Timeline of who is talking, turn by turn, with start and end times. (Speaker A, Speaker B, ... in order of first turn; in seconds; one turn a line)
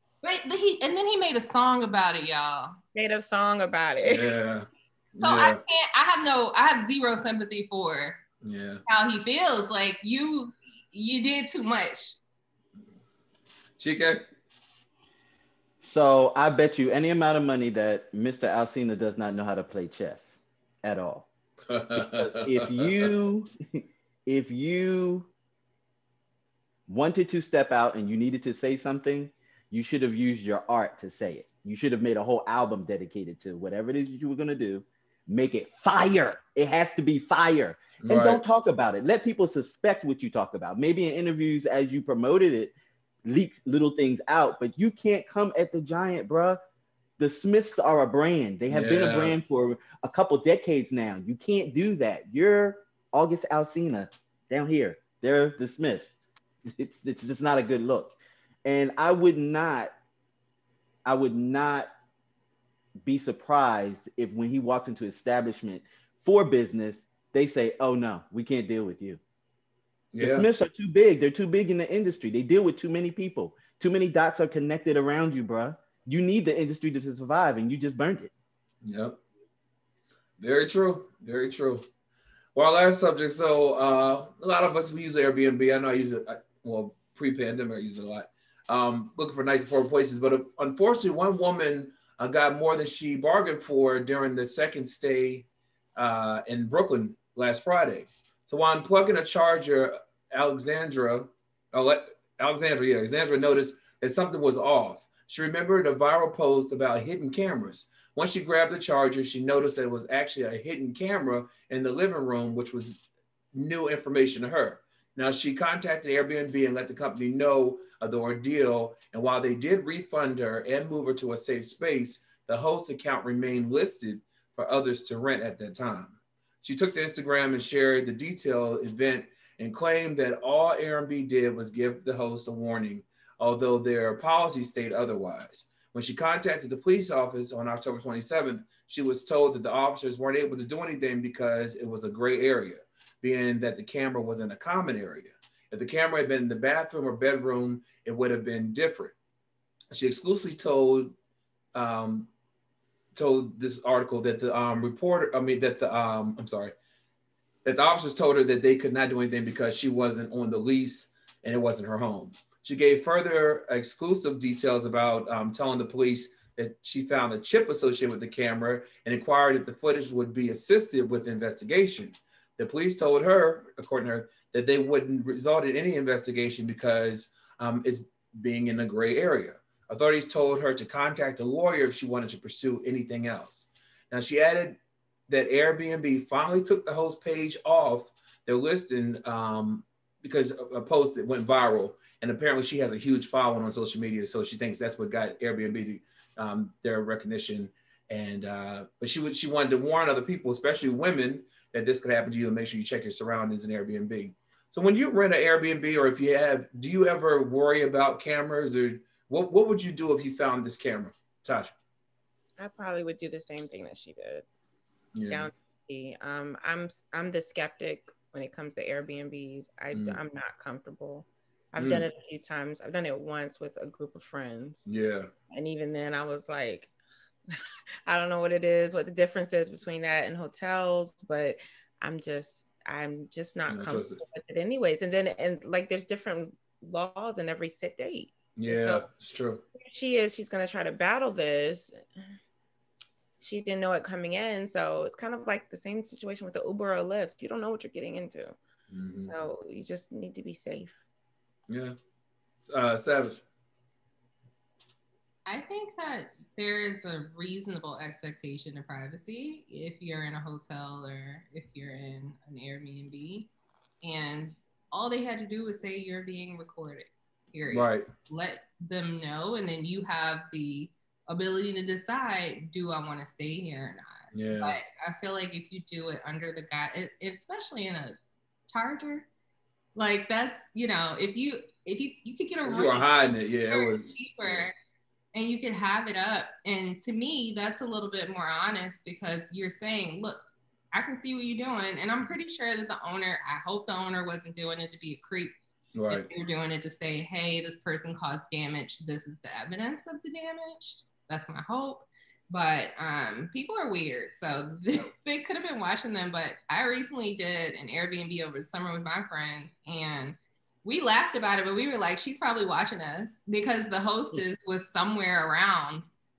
Speaker A: 0.2-2.7
Speaker B: 3.0-4.4
Speaker C: 4.0-5.6
Speaker A: 5.2-8.2
Speaker C: 8.4-8.8
Speaker A: 8.9-12.2
Speaker C: 13.8-14.3
Speaker D: 15.8-20.3
Speaker D: 20.8-21.3
Speaker C: 21.7-22.9
Speaker D: 21.9-25.3
Speaker D: 26.9-42.7
Speaker C: 38.0-38.4
Speaker D: 43.2-46.6
Speaker D: 47.2-56.2
Speaker C: 48.7-49.4
Speaker D: 56.8-59.9
Speaker D: 61.0-61.9
Speaker D: 63.0-69.2
Speaker C: 70.1-70.5
Speaker D: 70.2-78.3
Speaker C: 78.8-79.2
Speaker C: 80.4-81.8
Speaker C: 82.5-113.0
Speaker C: 113.5-149.2
Speaker C: 149.9-151.2
Speaker C: 151.7-152.3
Speaker C: 153.2-156.8
Speaker C: 157.7-211.7
Speaker B: 212.6-214.4
Speaker C: 215.2-215.5
Speaker B: 215.3-224.9
Speaker C: 219.9-220.2
Speaker C: 221.8-222.1
Speaker C: 224.9-225.3
Speaker B: 225.5-226.9
Speaker B: 228.1-239.1
Speaker C: 233.7-234.2
Speaker C: 238.6-239.6
Speaker B: 239.8-242.0
Speaker B: 243.4-248.6
Speaker C: 248.9-249.3
Speaker B: 249.2-251.0
Speaker C: 251.7-251.9
Speaker C: 252.6-253.4
Speaker A: 255.5-263.5
Speaker A: 264.0-278.2
Speaker C: 267.7-268.1
Speaker C: 274.3-274.8
Speaker A: 278.7-279.3
Speaker A: 279.9-283.1
Speaker C: 282.6-284.7
Speaker A: 283.7-284.7
Speaker A: 285.3-295.6
Speaker C: 295.9-296.3
Speaker A: 296.1-316.1